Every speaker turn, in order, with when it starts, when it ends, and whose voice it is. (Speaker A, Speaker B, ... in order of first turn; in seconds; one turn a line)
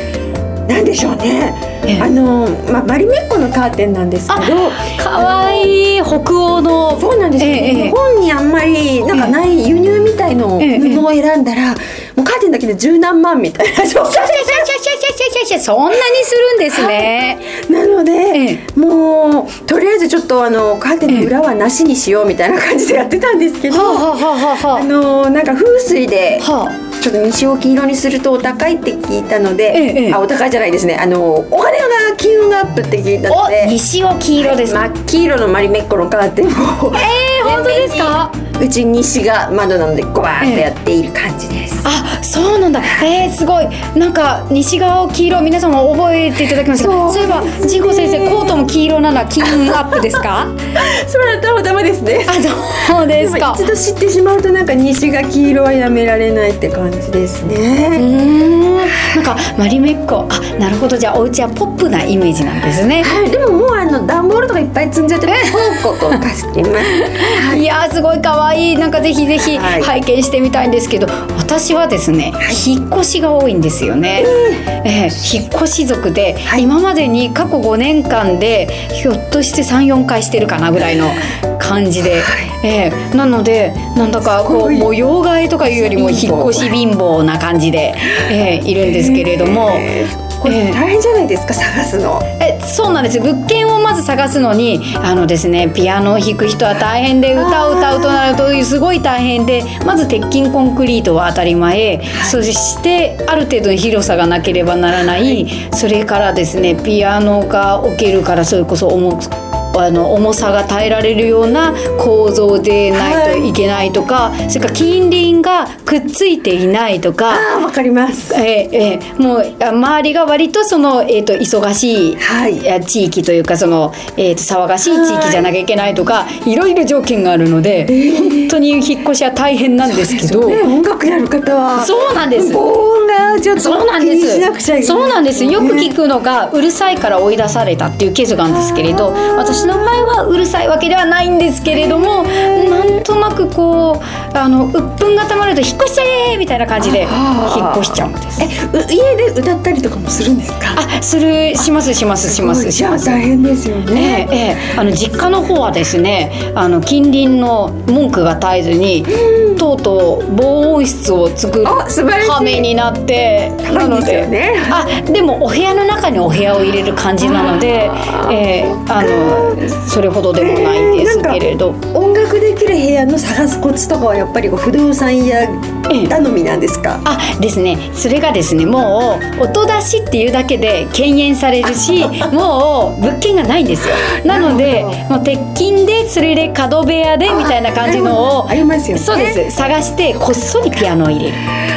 Speaker A: 0.7-5.7
Speaker B: 1.9-2.1
Speaker B: 4.3-8.0
Speaker A: 6.9-14.7
Speaker B: 10.6-11.0
Speaker B: 14.0-17.5
Speaker A: 16.7-33.8
Speaker B: 18.3-18.6
Speaker B: 23.7-24.9
Speaker B: 26.4-26.8
Speaker B: 29.7-30.2
Speaker B: 33.3-34.8
Speaker A: 34.4-41.9
Speaker B: 36.9-38.3
Speaker B: 40.4-40.7
Speaker B: 41.8-50.5
Speaker A: 46.7-48.6
Speaker A: 49.4-50.0
Speaker A: 50.8-58.1
Speaker B: 52.3-53.6
Speaker B: 58.0-63.1
Speaker A: 63.0-67.6
Speaker B: 65.3-66.2
Speaker B: 66.9-89.9
Speaker A: 69.4-69.9
Speaker A: 74.2-74.6
Speaker A: 76.5-76.7
Speaker A: 82.0-82.5
Speaker A: 84.2-84.9
Speaker A: 85.6-86.8
Speaker A: 88.3-92.2
Speaker B: 90.4-90.8
Speaker B: 92.4-117.5
Speaker A: 97.3-98.4
Speaker A: 102.1-102.4
Speaker A: 112.9-113.5
Speaker A: 117.3-118.4
Speaker B: 118.3-130.6
Speaker A: 122.2-122.7
Speaker A: 124.8-125.5
Speaker A: 127.9-128.5
Speaker A: 129.8-135.9
Speaker B: 131.7-132.6
Speaker B: 133.6-148.5
Speaker A: 138.5-139.8
Speaker A: 146.8-150.8
Speaker B: 150.7-153.2
Speaker A: 152.2-154.3
Speaker B: 153.9-171.8
Speaker A: 159.2-159.5
Speaker A: 161.6-162.7
Speaker A: 163.6-164.8
Speaker A: 167.2-169.6
Speaker A: 170.4-177.0
Speaker B: 175.9-176.1
Speaker B: 177.0-191.4
Speaker A: 184.2-185.0
Speaker A: 187.3-189.4